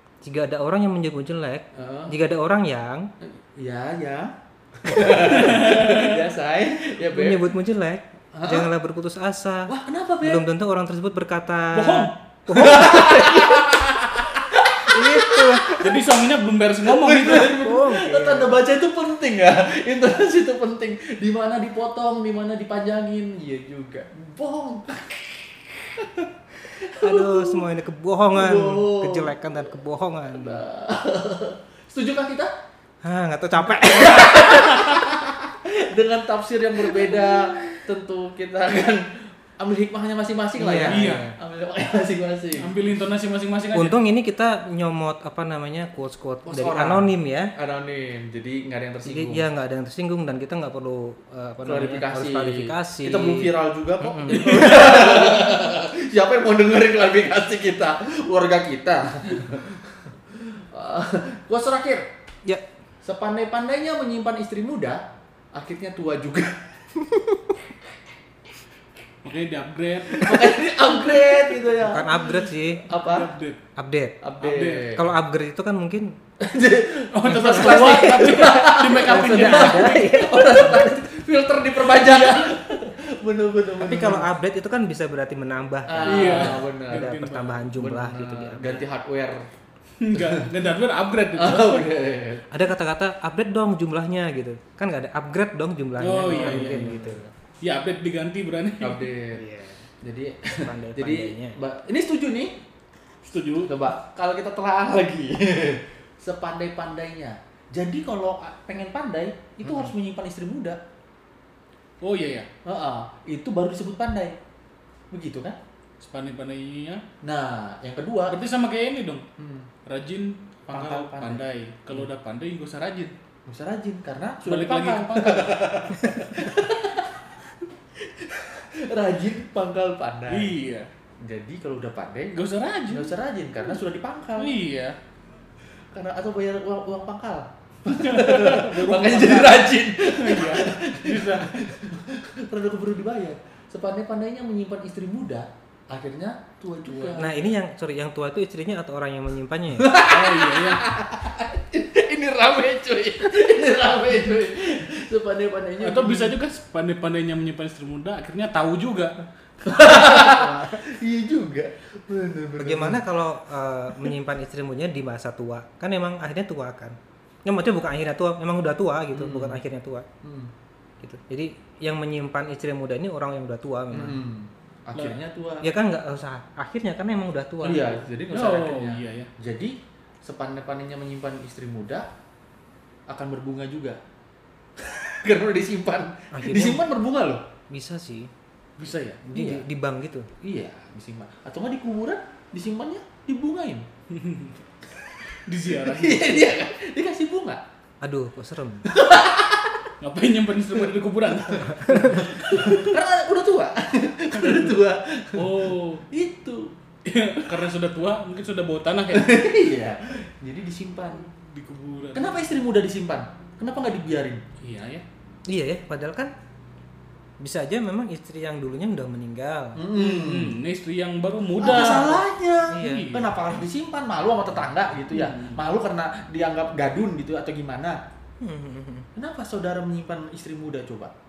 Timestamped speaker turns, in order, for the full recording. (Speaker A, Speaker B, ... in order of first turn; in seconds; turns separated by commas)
Speaker A: 0.2-3.1, Speaker B: 1.7-2.1, Speaker B: 3.2-7.5, Speaker C: 5.3-6.1, Speaker A: 7.1-13.7, Speaker B: 8.3-8.7, Speaker B: 9.7-10.4, Speaker C: 11.7-12.2, Speaker B: 12.5-15.9, Speaker A: 14.9-16.0, Speaker C: 15.8-17.6, Speaker B: 16.8-27.6, Speaker A: 17.6-18.6, Speaker A: 27.0-30.6, Speaker B: 28.3-29.4, Speaker B: 30.3-32.5, Speaker A: 33.0-35.0, Speaker B: 33.6-42.7, Speaker A: 37.0-37.4, Speaker A: 40.6-41.4, Speaker C: 40.8-41.3, Speaker C: 42.6-44.0, Speaker A: 43.7-47.5, Speaker B: 46.5-49.5, Speaker A: 49.0-54.8, Speaker B: 51.6-62.1, Speaker C: 54.3-55.5, Speaker B: 63.0-66.7, Speaker C: 69.2-70.7, Speaker B: 70.1-73.3, Speaker A: 71.8-72.8, Speaker C: 72.9-73.6, Speaker A: 73.8-74.2, Speaker B: 74.2-75.0, Speaker C: 74.4-75.0, Speaker A: 74.9-76.1, Speaker B: 76.4-84.3, Speaker C: 77.1-80.2, Speaker A: 77.3-78.2, Speaker A: 79.1-81.0, Speaker C: 81.9-82.5, Speaker A: 83.8-88.8, Speaker B: 85.9-87.1, Speaker C: 86.0-87.7, Speaker B: 87.8-89.5, Speaker C: 90.0-91.9, Speaker B: 90.2-90.5, Speaker B: 91.4-92.5, Speaker A: 92.5-97.3, Speaker C: 96.0-97.0, Speaker B: 96.3-97.2, Speaker C: 97.6-99.1, Speaker B: 98.8-99.5, Speaker A: 99.3-99.9, Speaker B: 100.0-102.6, Speaker A: 100.6-101.6, Speaker C: 103.2-103.8, Speaker B: 103.7-110.8, Speaker C: 112.0-112.5, Speaker B: 112.7-114.4, Speaker B: 115.1-115.6, Speaker C: 116.0-117.0, Speaker B: 117.2-118.4, Speaker C: 118.3-119.2, Speaker B: 119.4-119.7, Speaker C: 119.8-123.1, Speaker B: 120.7-121.4, Speaker B: 123.5-127.3, Speaker C: 124.5-125.8, Speaker B: 128.0-130.5, Speaker C: 130.3-130.9, Speaker B: 131.2-132.4, Speaker C: 132.3-133.1, Speaker B: 132.9-134.6, Speaker C: 134.4-135.0, Speaker B: 135.9-147.4, Speaker C: 137.9-141.5, Speaker A: 147.1-149.9, Speaker B: 149.8-156.4, Speaker C: 150.1-150.8, Speaker C: 155.8-159.2, Speaker B: 159.6-163.0, Speaker C: 159.9-160.4, Speaker A: 162.6-170.1, Speaker B: 169.1-169.6, Speaker B: 170.2-170.5, Speaker A: 171.0-174.2, Speaker B: 173.9-175.7, Speaker A: 175.6-178.1, Speaker B: 177.6-182.1, Speaker C: 178.3-179.3, Speaker B: 183.1-184.0, Speaker B: 184.8-187.4, Speaker A: 186.3-186.9, Speaker A: 187.7-188.3, Speaker C: 188.8-189.2, Speaker A: 189.3-190.3, Speaker B: 189.3-189.7, Speaker B: 190.4-193.9, Speaker C: 194.1-194.6, Speaker C: 195.3-196.5, Speaker B: 195.7-197.6, Speaker A: 198.0-198.9, Speaker B: 198.9-199.9, Speaker C: 200.0-202.9, Speaker B: 201.7-206.7, Speaker C: 204.4-204.7, Speaker C: 205.4-206.0, Speaker C: 207.1-209.3, Speaker B: 209.1-211.3, Speaker C: 211.3-212.4, Speaker B: 212.1-214.4, Speaker C: 214.6-215.1, Speaker A: 215.5-216.3, Speaker A: 217.4-219.8, Speaker B: 219.8-220.6, Speaker C: 220.0-223.3, Speaker B: 221.6-228.0, Speaker A: 222.7-223.1, Speaker C: 225.1-225.6, Speaker A: 228.4-229.1, Speaker B: 229.2-231.1